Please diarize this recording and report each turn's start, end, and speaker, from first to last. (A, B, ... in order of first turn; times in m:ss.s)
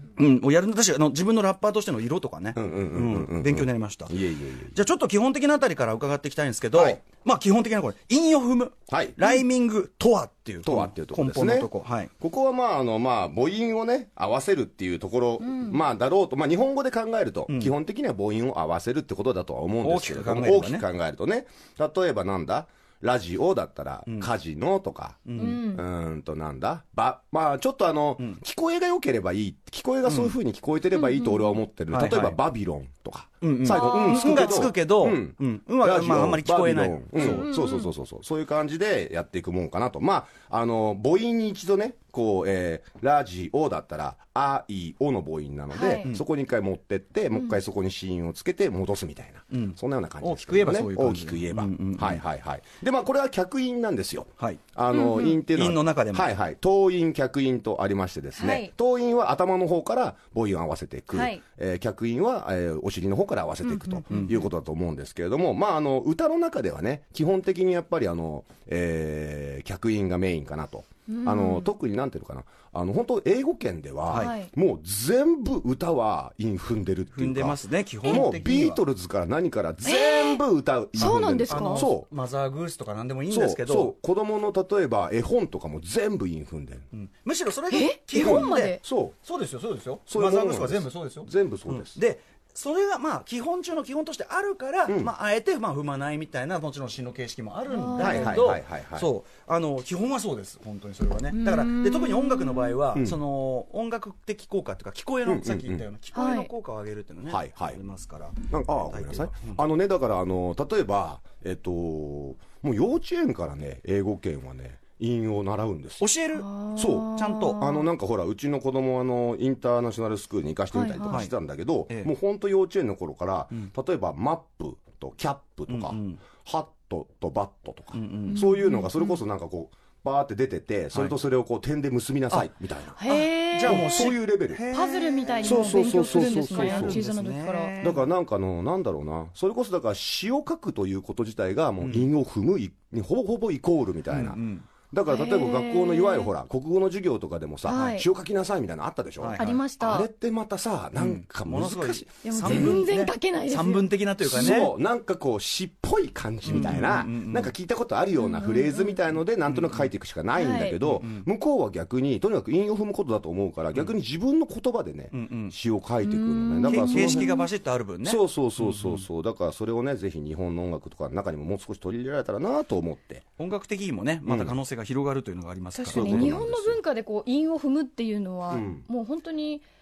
0:00.2-0:04.2 A
0:02.6-0:04.8 B
0:04.7-0:12.1 A
0:06.7-0:07.0 B
0:08.9-0:09.2 B
0:10.6-0:11.7 B
0:12.2-1:22.1 B
0:15.4-0:15.8 C
0:19.8-0:20.8 A
0:25.3-0:25.6 A
0:25.4-0:25.8 C
0:30.1-0:30.4 A
0:31.0-0:31.6 C
0:31.9-0:32.4 A
0:33.4-0:37.5 A
0:33.7-0:34.7 C
0:37.2-0:37.9 C
0:45.7-0:46.1 C
0:49.5-0:52.2 A
0:54.9-0:55.4 C
0:55.5-0:56.3 A
0:58.4-0:58.7 C
1:01.1-1:01.4 C
1:03.6-1:04.4 C
1:04.1-1:04.4 A
1:11.1-1:11.7 C
1:14.1-1:14.4 A
1:14.2-1:14.5 C
1:17.1-1:18.8 A
1:19.8-1:20.4 C
1:21.0-1:21.9 C
1:21.0-1:23.9 A
1:23.3-1:26.9 B
1:26.9-1:49.6 A
1:27.7-1:28.8 C
1:28.2-1:29.1 B
1:30.1-1:32.0 B
1:37.7-1:38.4 C
1:38.0-1:39.1 B
1:41.3-1:42.8 C
1:43.0-1:43.2 B
1:45.3-1:45.9 B
1:46.1-1:46.5 C
1:47.3-1:47.8 B
1:48.4-1:56.1 B
1:56.0-1:56.5 A
1:56.4-1:57.9 C
1:56.8-2:13.0 B
1:57.1-1:57.7 A
2:00.7-2:01.2 C
2:05.7-2:06.2 A
2:07.9-2:08.4 A
2:08.3-2:09.2 C
2:13.0-2:14.2 C
2:13.0-2:18.1 A
2:13.6-2:14.6 B
2:14.7-2:17.8 C
2:15.4-2:17.0 B
2:17.8-2:24.4 B
2:21.8-2:22.1 A
2:24.1-2:24.7 A
2:24.9-2:32.8 B
2:25.1-2:26.3 C
2:27.6-2:28.1 C
2:29.2-2:29.6 A
2:29.4-2:30.1 C
2:31.0-2:34.7 A
2:32.2-2:34.6 C
2:34.2-2:47.3 B
2:36.4-2:37.5 A
2:38.2-2:39.1 C
2:39.5-2:39.9 A
2:40.4-2:40.8 C
2:40.8-2:41.3 A
2:45.1-2:45.6 A
2:46.0-2:47.5 C
2:46.7-2:49.0 A
2:48.0-2:53.2 B
2:53.4-2:56.8 A
2:54.3-2:54.5 B
2:55.8-2:59.6 C
2:55.9-2:56.8 B
2:58.5-2:58.8 B